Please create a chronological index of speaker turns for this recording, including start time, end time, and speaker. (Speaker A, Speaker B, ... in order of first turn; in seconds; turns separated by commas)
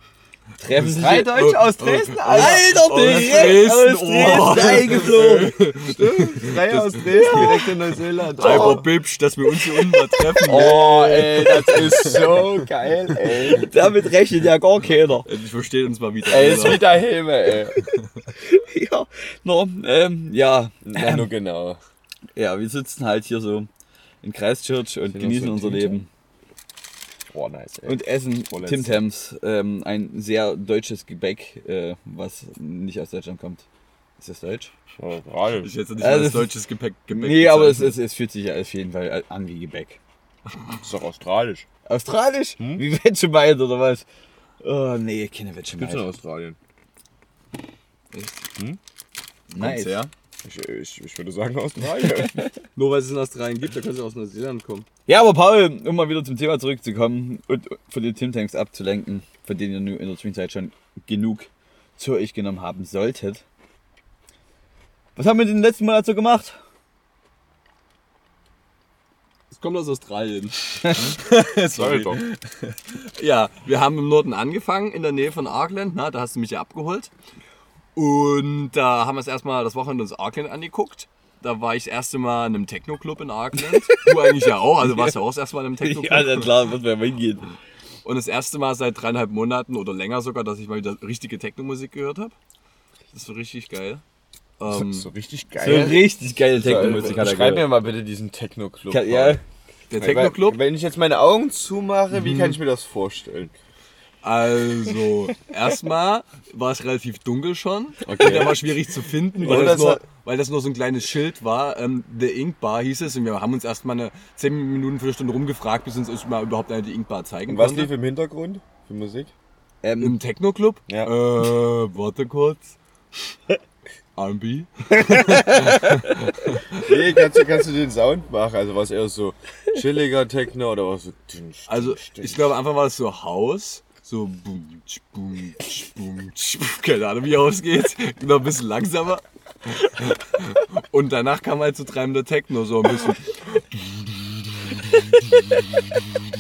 Speaker A: 0.6-5.5, Speaker B: 0.7-7.8, Speaker C: 2.3-3.6, Speaker C: 4.2-8.9, Speaker A: 7.1-7.7, Speaker B: 8.4-10.9, Speaker A: 8.4-8.9, Speaker A: 9.5-12.4, Speaker C: 10.4-13.7, Speaker A: 13.5-15.3, Speaker B: 15.2-16.9, Speaker C: 16.2-17.8, Speaker A: 18.3-21.3, Speaker C: 20.9-21.8, Speaker A: 22.4-23.7, Speaker A: 24.2-26.1, Speaker C: 25.1-26.1, Speaker C: 27.3-28.0, Speaker A: 27.9-33.6, Speaker C: 28.5-29.0, Speaker A: 34.2-34.7, Speaker C: 35.0-35.7, Speaker B: 35.6-38.0, Speaker A: 36.0-36.5, Speaker A: 37.1-40.0, Speaker C: 40.8-41.7, Speaker A: 41.9-44.0, Speaker C: 42.6-42.8, Speaker A: 44.6-46.1, Speaker C: 45.8-46.6, Speaker B: 48.1-48.4, Speaker A: 49.5-50.0, Speaker B: 49.5-50.1, Speaker C: 50.4-52.5, Speaker B: 52.7-54.9, Speaker A: 55.1-63.4, Speaker A: 65.2-66.6, Speaker B: 69.5-77.1, Speaker C: 71.7-72.2, Speaker B: 78.0-86.6, Speaker A: 83.7-85.1, Speaker A: 85.8-87.5, Speaker B: 88.0-92.3, Speaker B: 93.1-94.0, Speaker B: 94.6-95.1, Speaker C: 94.7-99.4, Speaker A: 95.6-97.7, Speaker B: 96.6-97.3, Speaker A: 98.9-99.4, Speaker B: 99.9-100.6, Speaker C: 100.0-103.5, Speaker B: 102.1-102.6, Speaker B: 104.2-117.9, Speaker C: 108.0-108.8, Speaker C: 109.3-110.0, Speaker C: 117.5-119.3, Speaker A: 119.8-120.2, Speaker B: 120.0-123.3, Speaker C: 120.9-121.1, Speaker B: 124.2-126.6, Speaker A: 125.1-126.1, Speaker C: 126.7-132.5, Speaker B: 131.7-145.6, Speaker C: 144.8-146.1